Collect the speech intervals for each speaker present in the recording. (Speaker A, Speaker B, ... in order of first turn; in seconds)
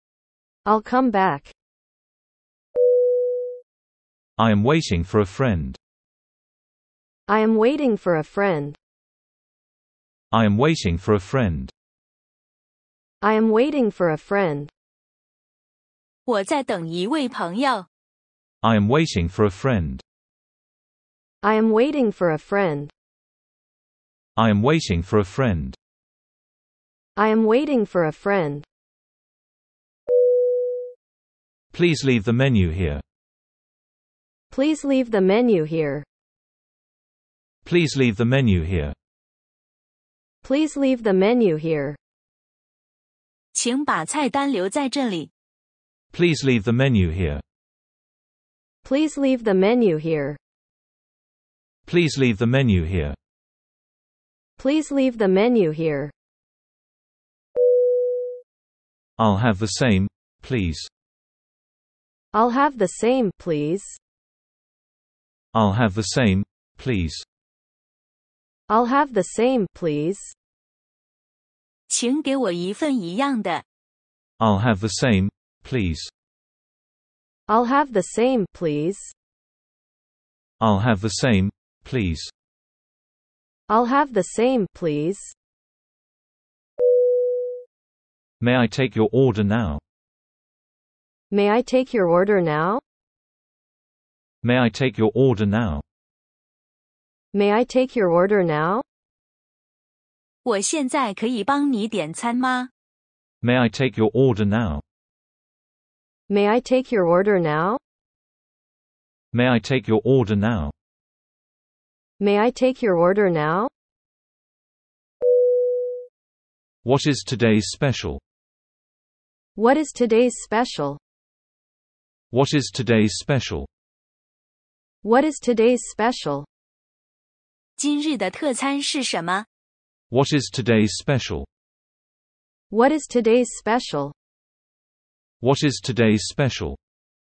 Speaker A: 0.7-1.5, 7.3-8.8, 13.2-14.7, 21.4-22.9, 27.2-28.7, 34.5-36.1, 40.4-42.0, 48.8-50.4, 54.6-56.1, 62.3-64.0, 68.7-70.3, 77.5-79.1, 83.7-85.3, 91.3-92.8, 97.3-98.8, 106.3-107.8, 112.2-113.7, 119.6-121.0, 125.0-126.5, 132.7-134.2
Speaker B: 4.4-5.8, 10.3-11.7, 18.6-20.0, 24.4-25.8, 31.7-33.0, 37.6-39.0, 46.1-47.4, 51.9-53.2, 59.2-60.9, 65.5-67.2, 74.4-76.1, 80.6-82.3, 88.4-89.8, 94.4-95.8, 103.4-104.8, 109.3-110.7, 116.8-118.2, 122.3-123.7, 130.1-131.5, 135.4-136.8
Speaker C: 16.3-17.9, 43.5-45.3, 71.9-73.6, 100.4-102.7, 127.8-129.5